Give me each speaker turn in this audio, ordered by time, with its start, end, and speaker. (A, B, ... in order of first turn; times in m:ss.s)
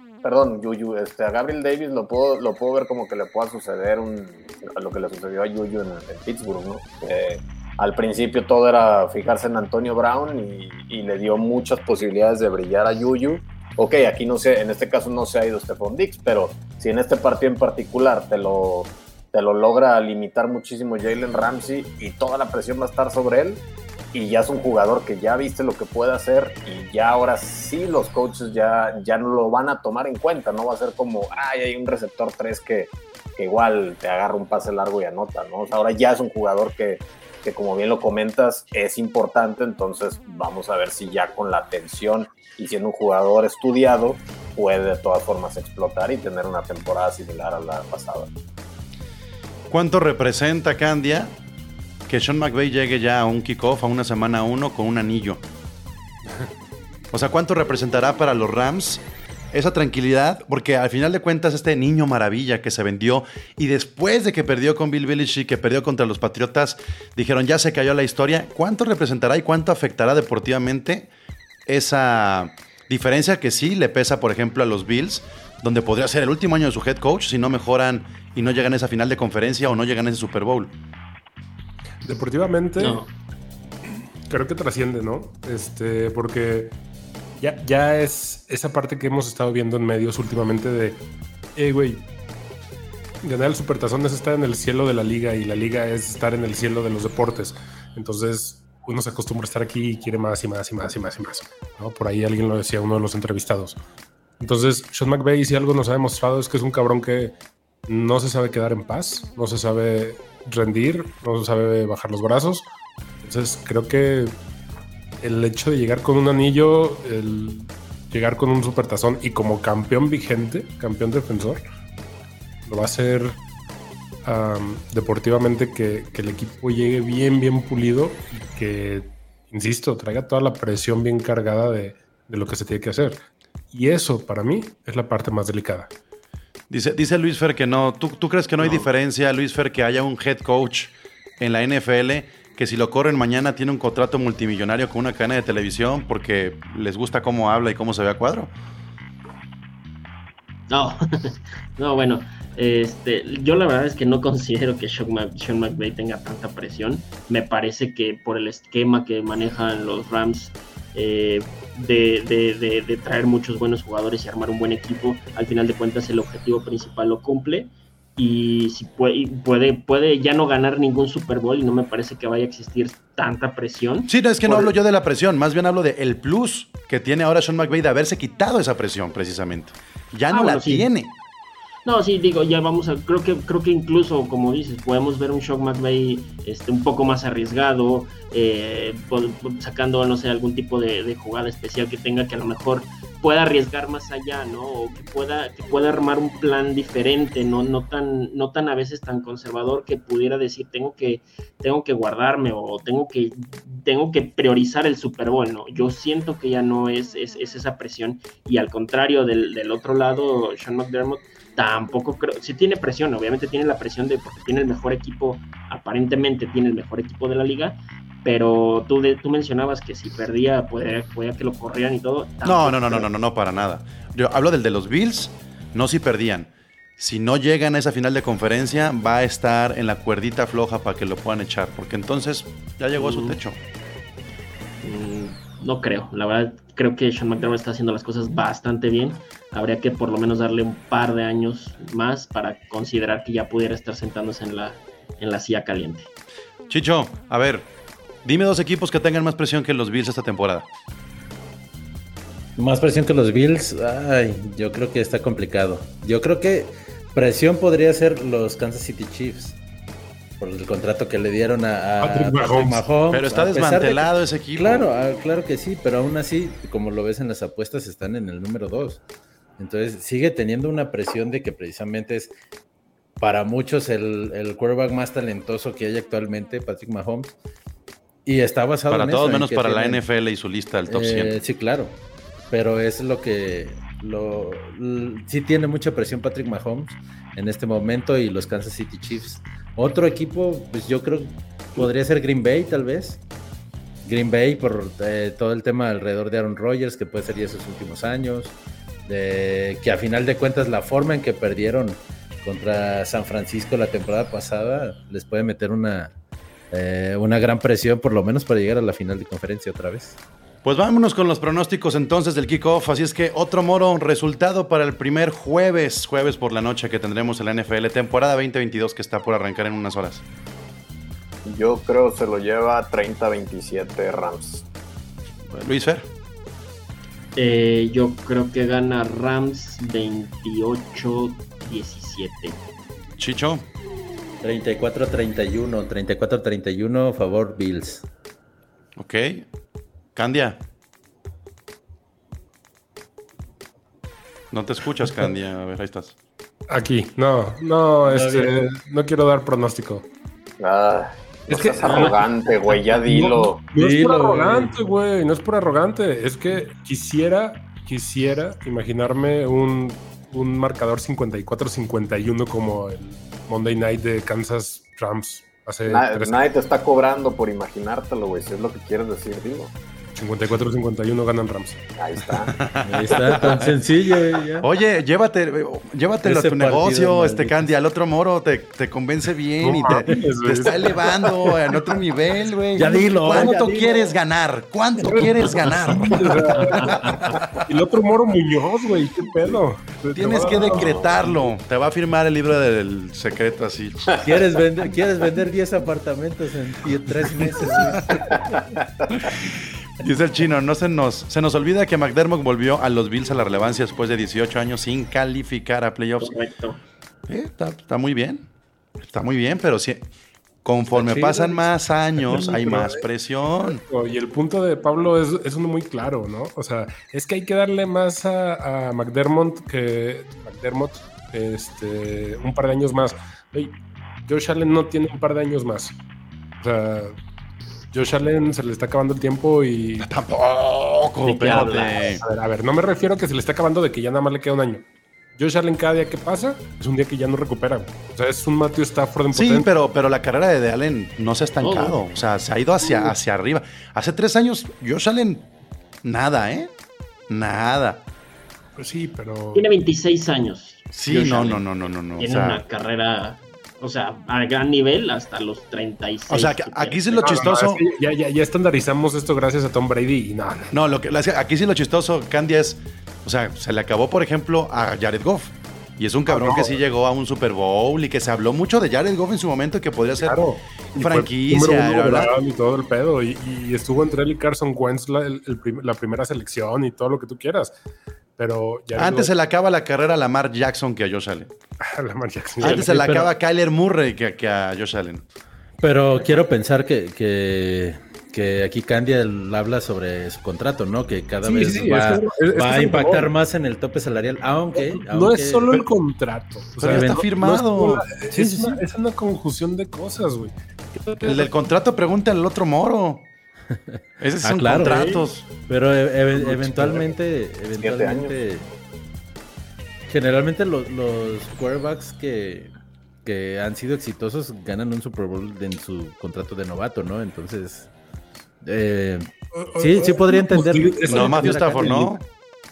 0:00.2-0:48.3 A
0:49.7-0:51.4 B
0:52.1-0:55.4 B
0:57.1-1:11.1 B
1:11.6-1:20.7 B
1:22.0-1:23.0 C
1:22.8-1:23.1 D
1:24.3-1:26.8 C
1:27.4-1:31.0 C
1:31.6-1:32.1 C
1:33.2-1:43.8 C
1:44.4-1:47.3 C
1:47.9-1:52.6 C
1:53.2-1:54.4 C
1:55.2-2:01.6 C
2:02.6-2:03.4 C
2:04.2-2:15.9 C
2:16.7-2:28.5 B
2:18.6-2:18.8 D
2:30.7-2:54.7 D
2:54.1-3:01.1 B
3:00.3-3:00.9 D
3:01.8-3:43.1 D
3:42.4-3:53.6 B
3:53.0-3:53.4 D
3:54.8-4:06.1 D
4:06.7-4:07.7 B
4:08.2-4:10.7 B
4:12.6-4:19.6 E
4:20.4-4:29.0 E
4:22.0-4:22.9 C
4:23.1-4:24.9 B
4:29.6-4:32.3 E
4:33.2-4:37.4 E
4:38.2-4:40.0 E
4:38.9-4:41.4 B
4:40.9-4:42.0 E
4:42.5-4:53.2 E
4:54.0-4:58.5 E
4:59.0-5:06.1 E
5:06.7-5:10.2 E
5:10.6-5:20.2 B
5:21.4-5:24.6 A
5:25.5-5:26.1 B
5:27.4-5:32.6 D
5:33.2-5:33.6 B
5:34.4-5:38.0 E
5:39.0-5:39.4 B
5:40.2-5:40.6 B
5:44.5-5:46.1 B
5:46.7-5:50.0 C
5:48.0-5:48.6 E
5:50.6-5:53.6 A
5:51.5-5:52.2 C
5:52.7-6:06.4 C
5:53.8-5:54.8 E
6:05.9-6:09.7 A
6:10.1-6:11.8 C
6:12.0-6:12.6 A
6:12.3-6:13.8 B
6:12.8-6:14.7 E
6:14.6-6:27.5 B
6:16.2-6:17.7 E
6:19.6-6:21.6 C
6:22.8-6:24.0 E
6:23.1-6:23.8 C
6:25.0-6:31.5 C
6:26.6-6:26.9 D
6:30.1-6:34.2 B
6:30.6-6:31.1 A
6:34.2-6:38.4 E
6:38.1-6:39.0 A
6:39.1-6:46.3 B
6:46.2-6:46.8 D
6:47.3-6:48.5 B
6:49.0-6:50.1 B
6:50.6-6:53.8 B
6:51.0-6:51.6 C
6:52.2-6:53.0 C
6:53.6-7:06.0 C
7:06.6-7:07.2 C
7:07.9-7:10.1 C
7:10.0-7:12.2 B
7:11.4-7:11.7 A
7:11.4-7:12.0 D
7:12.0-7:19.7 C
7:19.3-7:25.5 B
7:21.6-7:22.0 D
7:26.0-7:26.7 B
7:27.3-7:28.0 B
7:28.8-7:29.7 C
7:29.5-7:31.6 D
7:30.9-7:32.6 B
7:32.2-7:37.2 D
7:36.3-7:37.8 B
7:37.2-7:40.7 C
7:40.7-7:52.3 B
7:46.3-7:46.8 C
7:50.2-7:57.7 C
7:58.4-7:59.3 C
7:59.0-8:01.5 B
8:01.8-8:02.8 C
8:02.6-8:05.2 B
8:02.6-8:03.3 E
8:05.8-8:15.8 E
8:11.4-8:13.3 C
8:14.7-8:21.5 C
8:16.8-8:18.2 B
8:18.3-8:18.8 E
8:21.2-8:23.3 B
8:23.7-8:28.7 E
8:24.2-8:25.5 B
8:26.3-8:27.2 A
8:27.7-8:28.4 A
8:30.1-8:32.7 E
8:33.2-8:37.9 E
8:38.6-8:42.2 E
8:39.5-8:41.6 C
8:41.0-8:42.2 B